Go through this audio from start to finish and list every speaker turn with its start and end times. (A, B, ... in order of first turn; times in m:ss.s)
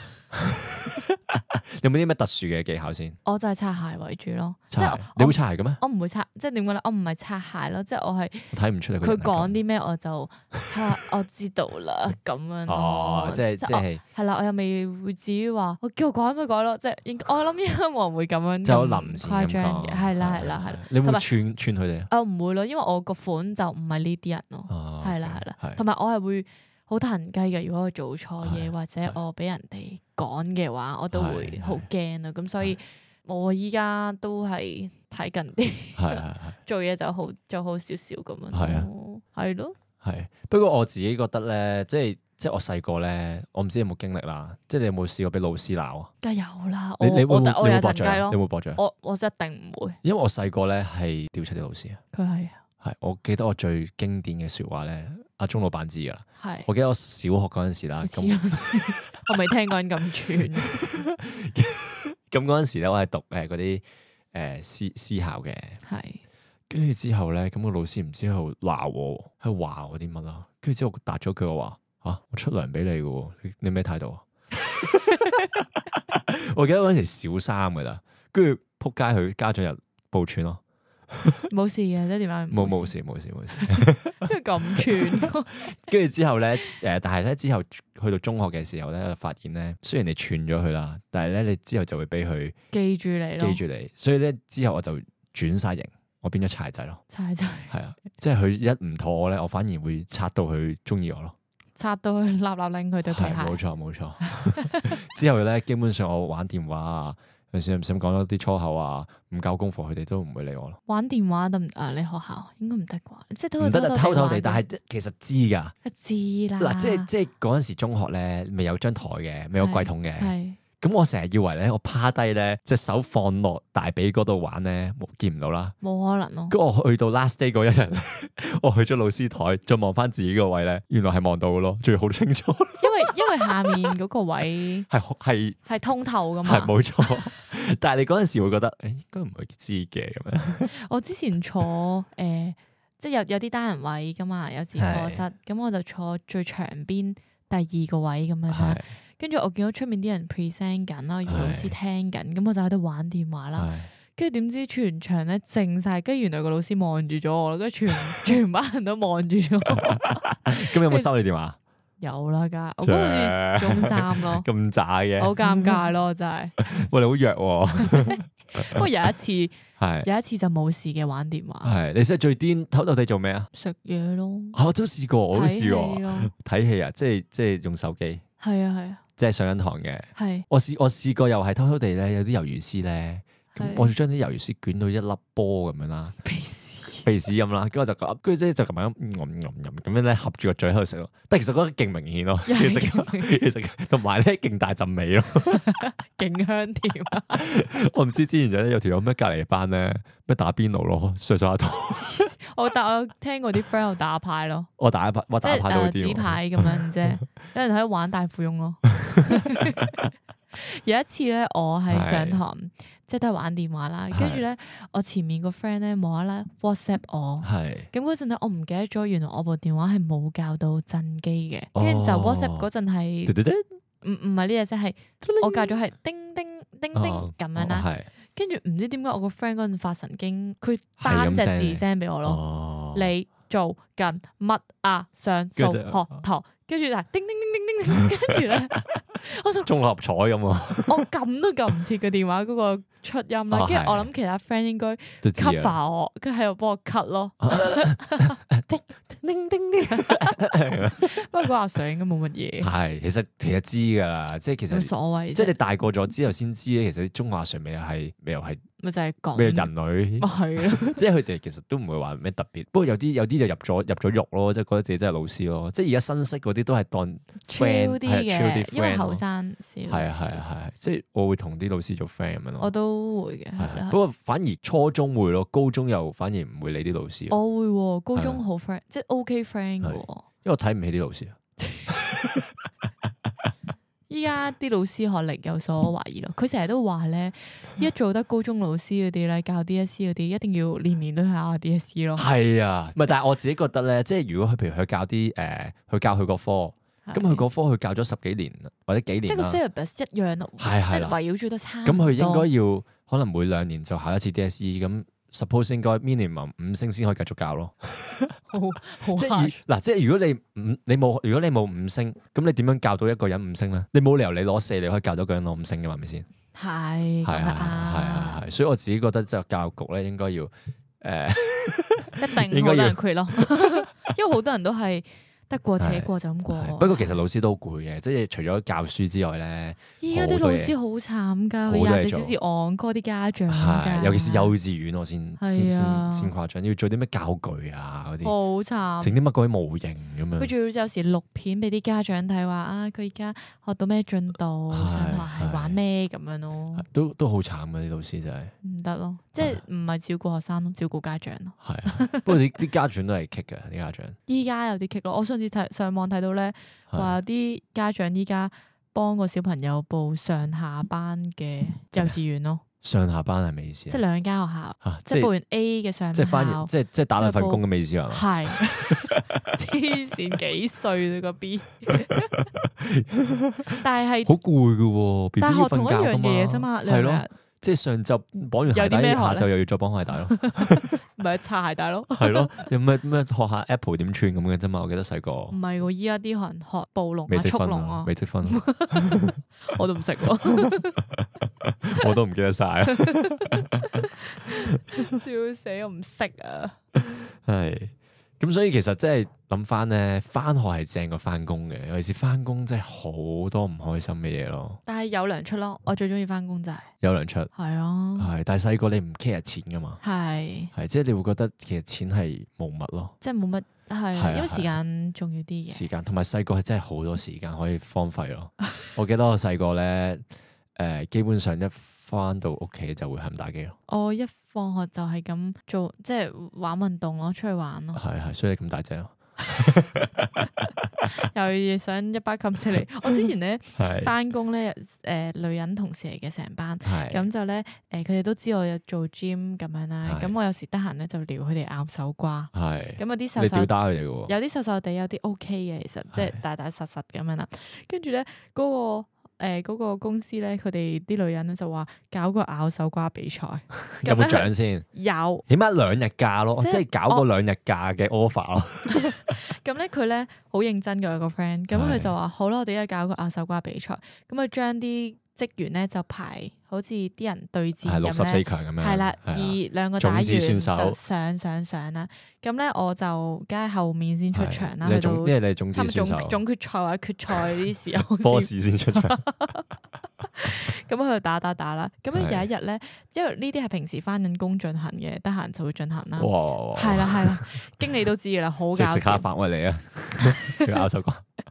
0:00.3-0:03.2 A
0:03.2-0:21.3 B
0:04.7-0:05.8 A
0:08.5-0:09.6 A
0:12.7-0:14.0 A
0:18.6-0:22.1 A
0:22.1-0:39.8 B
0:24.7-0:25.8 A
0:28.4-0:28.7 A
0:31.1-0:31.9 A
0:36.0-0:36.6 A
0:38.5-0:38.9 A
0:40.0-0:46.1 A
0:46.2-0:50.0 B
0:47.0-0:48.8 A
0:50.0-0:52.0 A
0:52.1-0:52.6 B
0:52.8-0:59.3 A
0:56.4-0:56.7 B
0:58.0-1:00.8 B
1:00.4-1:05.8 A
1:05.8-1:06.2 B
1:06.7-1:20.6 A
1:21.1-1:21.4 A
1:21.5-1:22.9 B
1:22.5-1:32.6 A
1:23.6-1:25.7 B
1:32.7-1:33.6 B
1:33.4-1:37.0 A
1:37.1-1:37.8 B
1:37.7-1:41.4 A
1:41.8-1:43.6 B
1:43.1-1:50.8 A
1:44.3-1:45.0 B
1:50.9-1:54.6 B
1:53.6-1:55.8 A
1:55.8-1:57.1 B
1:56.6-2:05.8 A
1:59.6-2:00.6 B
2:05.8-2:06.6 B
2:06.5-2:13.9 A
2:12.8-2:14.9 B
2:14.9-2:15.6 A
2:15.7-2:17.3 B
2:16.4-2:20.7 A
2:20.7-2:41.1 B
2:24.8-2:25.2 A
2:28.5-2:28.9 A
2:31.3-2:31.7 A
2:33.6-2:33.9 A
2:39.8-2:41.6 A
2:42.0-2:44.5 B
2:42.8-2:45.8 A
2:45.2-2:46.7 B
2:46.6-2:48.9 A
2:47.8-2:51.7 B
2:49.8-2:50.1 A
2:51.6-2:53.5 A
2:53.5-2:54.6 B
2:54.5-2:58.2 A
2:55.3-2:56.3 B
2:58.4-2:59.0 B
2:59.2-3:06.2 A
3:00.2-3:00.5 B
3:03.5-3:03.9 B
3:06.2-3:07.1 B
3:07.0-3:15.7 A
3:12.5-3:13.3 B
3:15.5-3:17.4 B
3:17.3-3:22.3 A
3:21.9-3:24.7 B
3:24.8-3:27.2 A
3:25.4-3:29.8 B
3:29.1-3:29.7 A
3:30.5-3:43.4 B
3:31.9-3:32.4 A
3:34.1-3:34.4 A
3:37.4-3:37.9 A
3:41.8-3:42.7 A
3:43.3-3:43.7 A
3:44.0-3:52.4 B
3:45.2-3:45.8 A
3:46.9-3:48.1 A
3:51.0-3:53.1 A
3:52.9-3:59.7 B
3:55.6-3:56.2 A
3:59.6-4:01.0 A
4:00.9-4:08.4 B
4:03.5-4:04.1 A
4:05.2-4:05.8 A
4:07.4-4:11.2 A
4:09.9-4:10.4 B
4:11.0-4:12.7 B
4:12.6-4:18.6 A
4:14.7-4:15.6 B
4:18.8-4:21.0 B
4:19.3-4:29.2 A
4:27.5-4:30.4 B
4:29.9-4:32.7 A
4:32.6-4:34.0 B
4:33.6-4:37.4 A
4:37.3-4:40.2 B
4:38.2-4:38.4 A
4:39.8-4:42.5 A
4:44.1-4:52.3 B
4:52.2-4:59.6 A
4:57.1-4:57.4 B
4:59.3-5:02.5 B
5:00.6-5:01.2 A
5:01.8-5:08.4 A
5:08.5-5:09.6 B
5:09.0-5:16.3 A
5:16.5-5:18.4 B
5:17.2-5:23.9 A
5:22.2-5:27.2 B
5:25.8-5:30.8 A
5:30.0-5:34.6 B
5:31.7-5:32.4 A
5:33.5-5:38.3 A
5:35.4-5:36.3 B
5:38.2-5:39.1 B
5:39.0-5:40.5 A
5:40.4-5:46.9 B
5:44.7-5:45.8 A
5:46.8-5:48.5 A
5:48.6-5:52.4 B
5:51.6-5:54.2 A
5:54.3-6:02.6 B
5:56.9-5:57.2 A
6:02.8-6:04.0 A
6:03.9-6:12.3 B
6:04.8-6:05.3 A
6:06.1-6:09.4 A
6:12.6-6:13.7 A
6:13.8-6:14.4 B
6:14.2-6:20.9 A
6:15.4-6:17.3 B
6:18.7-6:19.5 B
6:20.3-6:22.7 B
6:22.2-6:25.6 A
6:25.5-6:31.0 B
6:27.3-6:29.4 A
6:30.5-6:35.2 A
6:32.9-6:36.8 B
6:37.4-6:44.8 A
6:44.9-6:46.9 B
6:47.0-6:47.5 A
6:47.5-6:48.3 B
6:48.2-6:50.0 A
6:50.0-6:50.7 B
6:50.7-6:53.2 A
6:53.2-6:55.9 B
6:54.2-6:54.7 A
6:55.7-7:00.2 A
7:00.8-7:03.8 A
7:03.9-7:08.0 B
7:08.0-7:11.0 A
7:11.1-7:23.7 B
7:13.8-7:14.1 A
7:16.8-7:17.2 A
7:20.0-7:20.3 A
7:22.5-7:24.3 A
7:24.3-7:35.4 B
7:34.0-7:34.9 A
7:35.5-7:39.4 A
7:36.5-7:37.3 B
7:38.9-7:59.6 B
7:41.7-7:42.1 A
7:47.8-7:51.0 A
7:54.3-7:56.4 A
7:58.2-7:59.2 A
8:00.4-8:09.3 B
8:02.1-8:02.5 A
8:06.2-8:07.6 A
8:08.7-8:11.2 A
8:10.2-8:10.8 B